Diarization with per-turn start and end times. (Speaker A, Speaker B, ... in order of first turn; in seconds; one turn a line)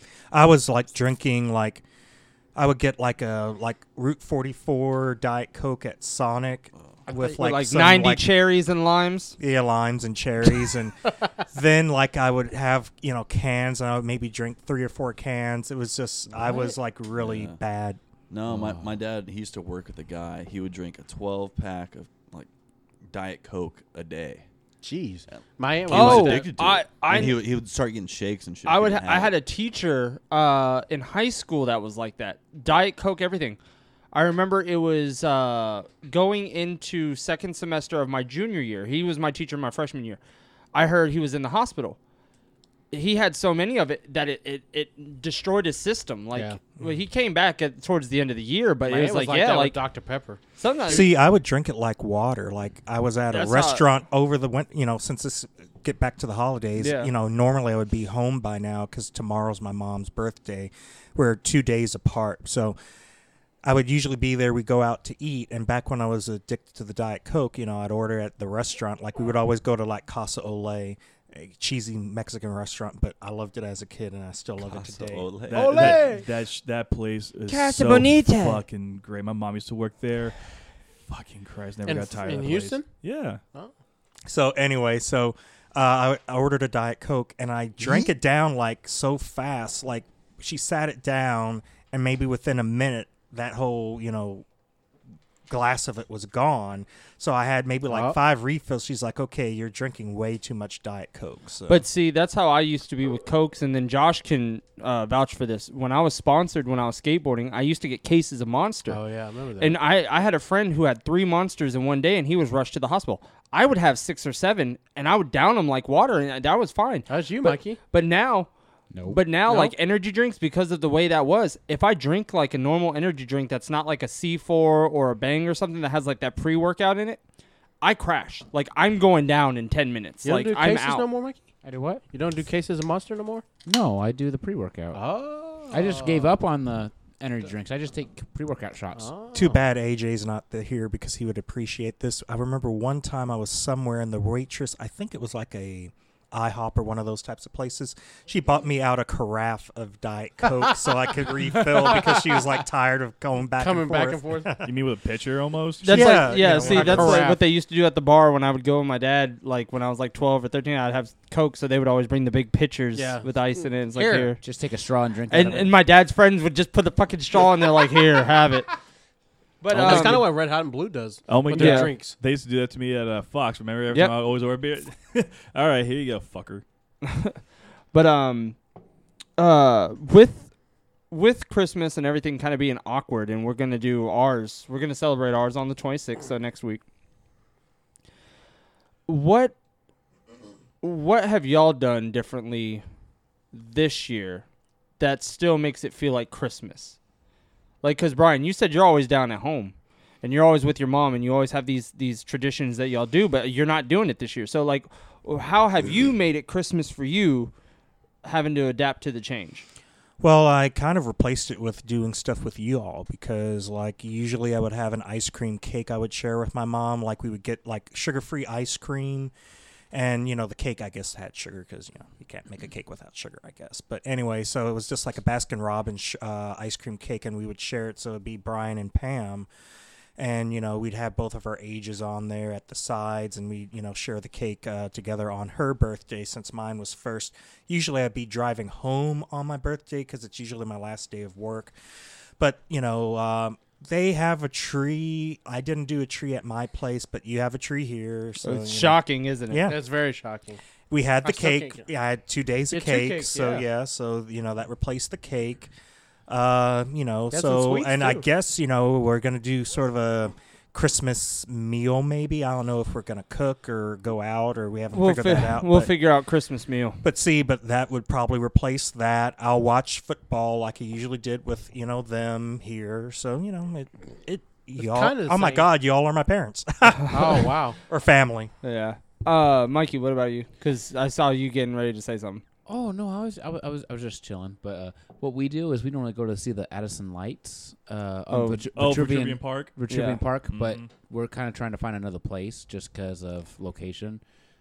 Speaker A: 0.3-1.8
Speaker A: 2.5-8.3
Speaker B: 7.2-9.4
Speaker A: 9.4-18.0
Speaker C: 17.1-17.6
Speaker C: 18.3-22.5
Speaker D: 18.5-19.0
Speaker C: 23.1-24.4
Speaker E: 24.8-26.5
Speaker C: 25.3-29.3
Speaker B: 25.9-27.4
Speaker B: 28.6-33.6
Speaker B: 34.1-40.2
Speaker B: 40.7-42.0
Speaker B: 42.9-49.8
Speaker E: 48.9-51.1
Speaker B: 50.5-51.1
Speaker A: 50.9-62.8
Speaker B: 53.3-53.8
Speaker B: 56.8-57.1
Speaker A: 63.6-75.3
Speaker C: 74.6-76.0
Speaker F: 75.5-80.4
Speaker E: 75.5-76.2
Speaker B: 77.5-78.6
Speaker F: 81.1-83.4
Speaker E: 81.8-83.0
Speaker A: 84.2-94.4
Speaker A: 95.5-101.8
Speaker E: 97.9-98.2
Speaker B: 101.7-109.0
Speaker E: 108.9-109.8
Speaker B: 109.6-118.5
Speaker E: 117.1-117.8
Speaker D: 118.9-119.2
Speaker B: 119.1-127.2
Speaker E: 119.5-119.7
Speaker B: 127.8-131.1
Speaker E: 130.2-131.5
Speaker D: 131.6-132.0
Speaker E: 132.1-133.4
Speaker D: 133.7-135.0
Speaker E: 134.9-136.4
Speaker D: 135.7-139.1
Speaker E: 138.9-139.6
Speaker A: 139.3-154.7
Speaker E: 151.9-152.2
Speaker E: 153.6-154.5
Speaker F: 154.6-156.2
Speaker B: 155.8-164.4
Speaker A: 155.8-157.2
Speaker E: 156.1-157.4
Speaker E: 162.9-164.3
Speaker D: 164.4-165.7
Speaker B: 165.3-168.7
Speaker B: 169.6-170.2
Speaker F: 169.7-170.3
Speaker E: 169.7-172.2
Speaker F: 171.3-176.6
Speaker B: 171.5-171.9
Speaker B: 177.0-177.4
Speaker B: 177.9-178.6
Speaker B: 179.4-180.5
Speaker B: 181.1-186.8
Speaker B: 189.1-189.5
Speaker B: 190.8-192.8
Speaker B: 193.5-194.4
Speaker B: 195.0-196.9
Speaker B: 197.8-207.5
Speaker B: 208.2-209.6
Speaker A: 210.2-219.3
Speaker A: 219.9-229.5
Speaker A: 230.2-241.7
Speaker A: 242.4-249.8
Speaker B: 248.4-249.7
Speaker E: 249.6-250.6
Speaker A: 250.9-255.7
Speaker E: 251.2-251.8
Speaker E: 252.7-253.7
Speaker A: 256.3-265.9
Speaker E: 257.3-258.2
Speaker B: 264.9-267.0
Speaker A: 267.0-278.5
Speaker E: 274.8-275.7
Speaker E: 277.1-277.8
Speaker B: 278.6-282.4
Speaker D: 282.7-294.2
Speaker B: 288.3-288.6
Speaker F: 288.7-289.9
Speaker B: 289.9-290.2
Speaker F: 290.4-290.9